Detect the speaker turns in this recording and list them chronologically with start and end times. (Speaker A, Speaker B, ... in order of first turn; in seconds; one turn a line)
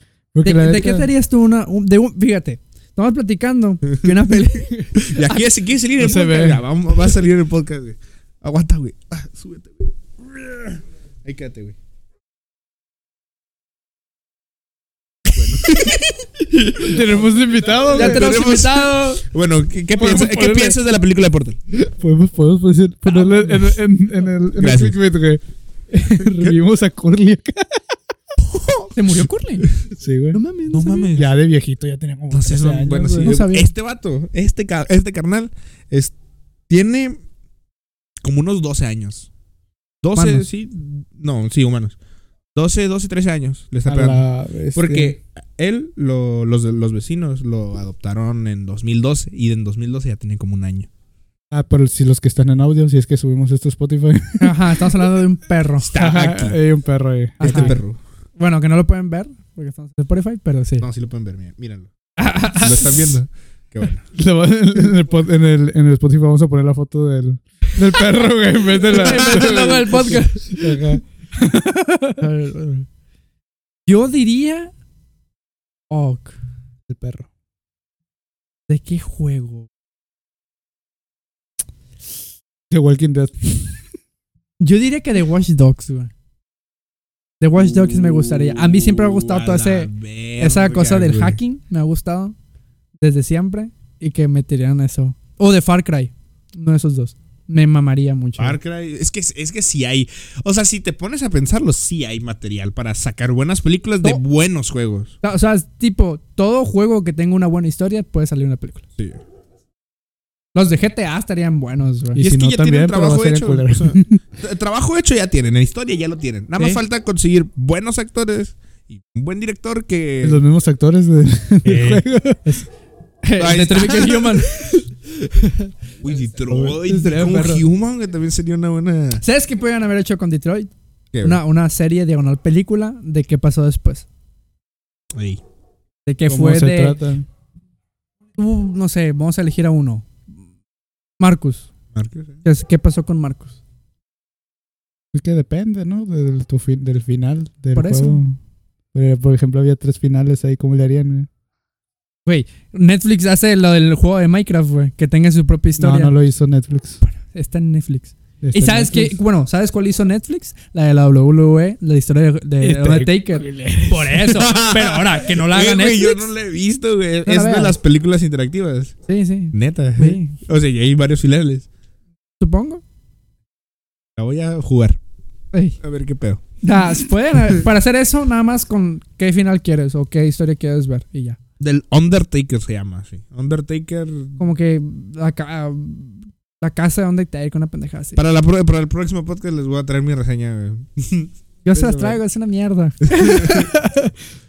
Speaker A: 0.3-1.1
Speaker B: 0.4-5.5
Speaker C: 3.9-4.4
Speaker C: 5.0-11.8
Speaker A: 6.0-6.6
Speaker C: 15.3-21.6
Speaker A: 16.8-18.3
Speaker B: 17.9-19.2
Speaker A: 19.9-20.8
Speaker A: 21.7-27.9
Speaker B: 23.0-23.8
Speaker C: 24.6-24.9
Speaker C: 28.4-29.0
Speaker B: 28.9-29.7
Speaker A: 29.9-30.4
Speaker B: 30.3-31.1
Speaker C: 30.7-31.3
Speaker A: 31.1-33.3
Speaker C: 32.3-36.1
Speaker B: 33.2-33.7
Speaker C: 36.7-37.2
Speaker C: 38.2-39.3
Speaker C: 40.0-42.0
Speaker B: 40.1-40.5
Speaker C: 42.5-50.9
Speaker A: 43.9-45.1
Speaker A: 51.5-54.9
Speaker B: 54.4-55.9
Speaker C: 55.8-56.6
Speaker A: 55.9-57.8
Speaker B: 57.4-57.8
Speaker C: 57.4-58.0
Speaker B: 58.4-60.9
Speaker C: 60.8-64.0
Speaker B: 62.2-63.1
Speaker A: 64.1-72.2
Speaker B: 68.8-71.0
Speaker B: 72.2-72.9
Speaker B: 73.8-74.7
Speaker B: 75.9-76.3
Speaker A: 76.9-77.3
Speaker B: 78.7-79.7
Speaker A: 82.7-83.8
Speaker B: 84.6-86.1
Speaker B: 87.4-92.3
Speaker C: 87.8-91.4
Speaker B: 93.0-98.6
Speaker C: 98.4-105.1
Speaker B: 105.2-108.8
Speaker B: 110.5-112.2
Speaker A: 112.1-114.2
Speaker C: 112.2-120.4
Speaker A: 120.2-122.6
Speaker C: 121.6-122.0
Speaker B: 123.2-125.7
Speaker C: 123.4-124.7
Speaker C: 126.0-129.2
Speaker A: 126.5-126.8
Speaker B: 126.8-127.6
Speaker B: 129.2-130.7
Speaker C: 131.1-131.4
Speaker B: 131.2-134.1
Speaker C: 135.1-135.4
Speaker B: 136.1-137.0
Speaker A: 136.2-137.2
Speaker B: 138.4-140.1
Speaker B: 141.2-141.7
Speaker C: 141.9-142.4
Speaker B: 142.4-143.5
Speaker A: 145.1-148.4
Speaker B: 147.7-148.2
Speaker A: 148.9-151.3
Speaker B: 152.2-156.1
Speaker A: 155.8-157.0
Speaker B: 157.0-166.3
Speaker A: 158.4-159.2
Speaker A: 162.6-164.2
Speaker C: 164.2-168.9
Speaker B: 167.2-167.8
Speaker B: 169.1-170.3
Speaker C: 169.5-171.7
Speaker B: 172.4-172.8
Speaker C: 174.2-175.0
Speaker C: 175.8-176.4
Speaker B: 176.6-181.4
Speaker C: 181.6-184.4
Speaker B: 184.4-188.2
Speaker C: 188.2-192.2
Speaker B: 191.6-193.8
Speaker C: 193.1-193.6
Speaker A: 193.5-194.1